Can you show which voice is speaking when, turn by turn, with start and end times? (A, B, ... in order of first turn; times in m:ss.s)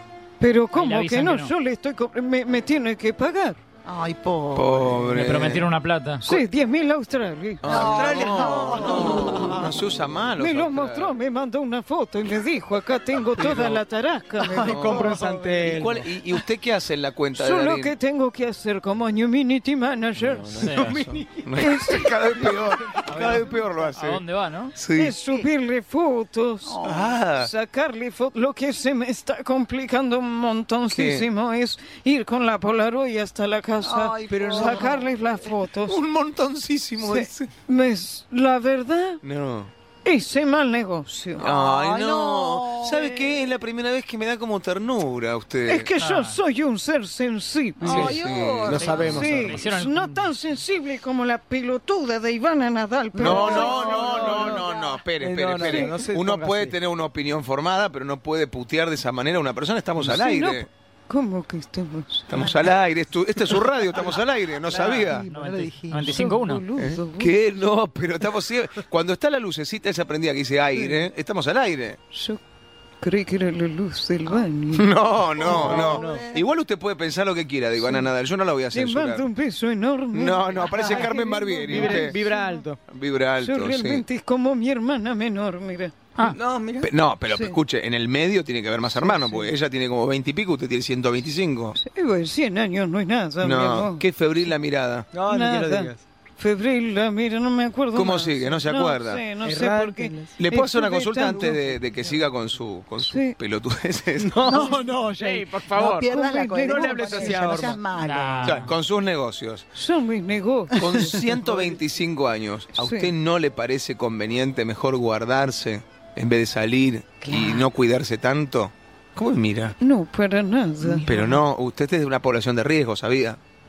0:00.4-0:03.6 A
0:00.8-0:01.5 B
0:03.9-0:05.2 C
0:04.5-0:05.7 D
0:05.1-0:06.3 B
0:06.2-0:08.1 A
0:07.6-0:11.2 D
0:07.6-0:09.7 C
0:08.0-0:08.2 E
0:10.4-0:15.2 A
0:13.4-0:13.8 D
0:14.4-0:15.8 C
0:14.6-0:18.0 D
0:14.7-0:16.1 E
0:17.3-0:20.8 A
0:20.2-0:24.2 D
0:20.6-0:21.0 B
0:20.8-0:21.5 E
0:21.6-0:22.6 A
0:23.0-0:24.8 B
0:24.8-0:25.2 D
0:24.9-0:36.0 A
0:26.7-0:27.1 C
0:26.8-0:27.5 D
0:30.9-0:31.3 D
0:33.8-0:35.1 C
0:34.3-0:34.8 D
0:35.8-0:37.5 D
0:37.0-0:39.2 A
0:39.2-0:39.7 D
0:40.0-0:41.5 A
0:41.4-0:45.9 D
0:41.4-0:43.5 C
0:45.7-0:48.2 A
0:46.0-0:46.4 B
0:47.8-0:49.2 C
0:47.8-0:49.6 D
0:48.7-0:50.2 B
0:48.9-0:54.6 A
0:53.1-1:00.7 D
0:53.2-0:55.1 C
0:53.7-0:54.5 E
0:55.2-0:56.8 E
1:00.0-1:02.6 A
1:02.3-1:05.3 D
1:04.7-1:06.2 C
1:04.8-1:06.6 B
1:05.9-1:07.4 A
1:06.8-1:12.0 D
1:10.8-1:11.1 A
1:12.1-1:12.4 A
1:13.0-1:14.9 A
1:14.7-1:19.3 D
1:15.4-1:16.4 C
1:15.5-1:15.9 A
1:15.5-1:16.3 E
1:18.7-1:22.7 A
1:20.1-1:22.2 D
1:20.6-1:22.8 E
1:22.9-1:24.0 D
1:23.4-1:26.0 A
1:26.2-1:26.9 E
1:26.8-1:31.8 D
1:27.3-1:27.6 A
1:31.8-1:34.0 A
1:33.4-1:35.1 D
1:35.1-1:36.0 E
1:35.3-1:41.6 A
1:37.9-1:39.2 D
1:39.4-1:40.3 E
1:40.4-1:44.4 D
1:43.0-1:43.4 A
1:44.2-1:47.8 E
1:44.4-1:48.7 C
1:46.0-1:47.5 A
1:48.0-1:48.7 B
1:48.4-1:49.7 D
1:49.8-1:51.2 A
1:50.8-1:59.8 D
1:52.7-1:53.1 A
1:57.3-1:57.7 C
1:59.8-2:01.1 A
2:00.8-2:01.4 C
2:01.0-2:03.4 D